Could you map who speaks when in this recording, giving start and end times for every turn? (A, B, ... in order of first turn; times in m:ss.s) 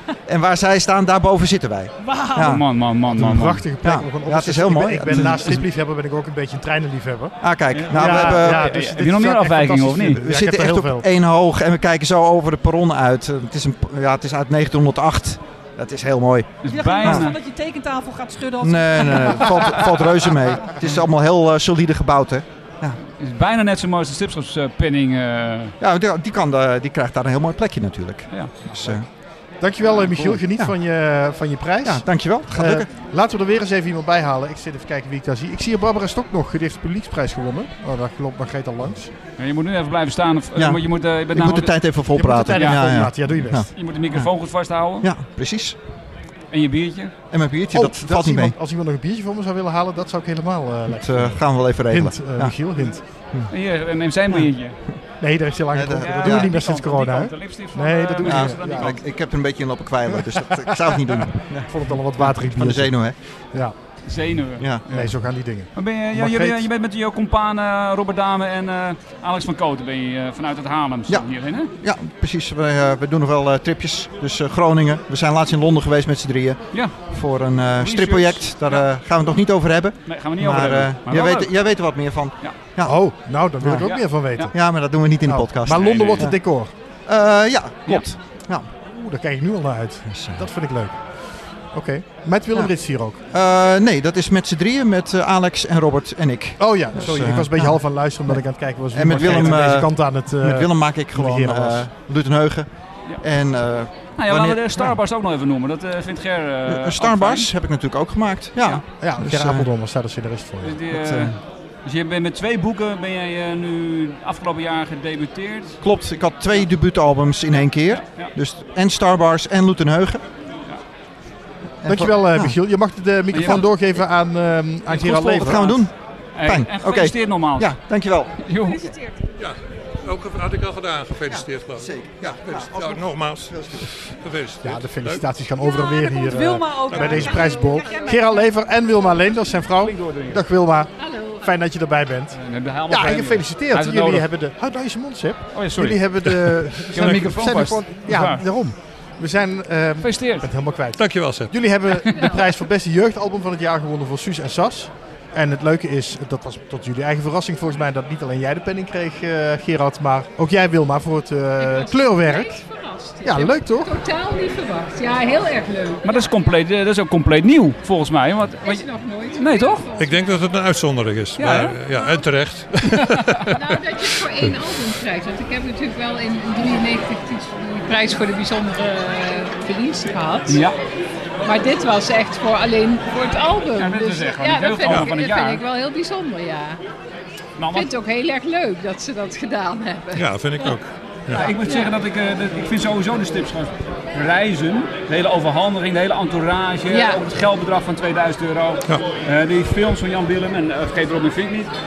0:00.3-0:02.6 A
0:02.0-0:02.5 B
0:02.4-0:03.7 C
0:03.1-0:07.4 D
0:03.8-0:05.6 A
0:05.1-0:05.5 C
0:07.4-0:08.8 A
0:07.7-0:10.2 C
0:07.9-0:11.1 D
0:10.2-0:17.3 A
0:16.6-0:17.4 C
0:16.7-0:20.4 B
0:18.6-0:23.0 A
0:23.2-0:25.8 C
0:25.8-0:29.1 A
0:28.3-0:28.6 C
0:29.6-0:39.1 D
0:30.0-0:30.4 C
0:30.5-0:30.7 A
0:31.8-0:32.9 A
0:39.4-0:42.0 C
0:40.6-0:44.3 A
0:42.1-0:43.6 D
0:42.5-0:42.9 C
0:43.7-0:45.1 C
0:44.9-0:45.8 A
0:46.5-0:47.2 C
0:47.3-0:48.6 A
0:47.7-0:53.0 D
0:51.0-0:52.6 A
0:53.5-0:54.8 C
0:55.2-0:59.0 D
0:55.7-0:56.5 A
0:56.0-0:59.0 C
0:58.2-1:03.2 A
1:00.2-1:01.0 D
1:01.7-1:03.7 D
1:04.1-1:05.2 C
1:04.6-1:04.9 A
1:04.9-1:06.6 D
1:05.7-1:11.7 C
1:11.8-1:23.1 A
1:16.7-1:17.1 C
1:17.7-1:18.9 C
1:20.0-1:22.7 C
1:22.8-1:24.7 D
1:23.6-1:23.9 A
1:23.8-1:24.5 C
1:24.5-1:26.4 A
1:25.2-1:26.7 D
1:25.7-1:26.3 C
1:27.1-1:28.7 A
1:28.8-1:31.1 D
1:30.1-1:30.5 A
1:31.7-1:33.2 D
1:33.3-1:42.7 A
1:36.6-1:41.8 D
1:39.2-1:39.6 C
1:43.2-1:44.9 A
1:44.1-1:47.5 C
1:46.7-1:49.7 A
1:48.6-1:48.8 C
1:48.9-1:50.8 D
1:50.6-1:55.8 C
1:50.9-1:51.3 A
1:55.8-2:00.2 A
1:57.9-1:58.4 C
2:01.8-2:02.6 A
2:01.9-2:05.7 D
2:03.3-2:03.7 C
2:04.9-2:05.8 C
2:05.0-2:08.4 A
2:06.3-2:07.9 C
2:08.4-2:08.9 C
2:08.6-2:09.2 B
2:09.4-2:15.2 E
2:11.2-2:13.9 A
2:14.6-2:22.4 D
2:15.6-2:18.5 B
2:16.9-2:17.4 E
2:19.8-2:20.4 C
2:21.0-2:21.5 F
2:22.3-2:24.3 C
2:22.9-2:42.6 D
2:25.5-2:26.2 C
2:26.9-2:28.4 C
2:30.0-2:30.5 C
2:31.0-2:31.5 E
2:32.1-2:32.4 F
2:41.6-2:46.2 F
2:43.2-2:44.0 D
2:46.0-2:49.9 C
2:48.6-2:50.5 F
2:49.9-2:53.7 E
2:51.4-2:51.8 C
2:52.8-2:53.2 C
2:53.6-3:00.6 F
3:00.5-3:00.8 C
3:01.4-3:06.8 F
3:03.7-3:05.6 C
3:04.9-3:05.1 E
3:07.6-3:07.9 C
3:07.7-3:10.8 F
3:10.1-3:11.5 E
3:11.3-3:21.7 C
3:11.3-3:11.9 F
3:16.9-3:17.2 F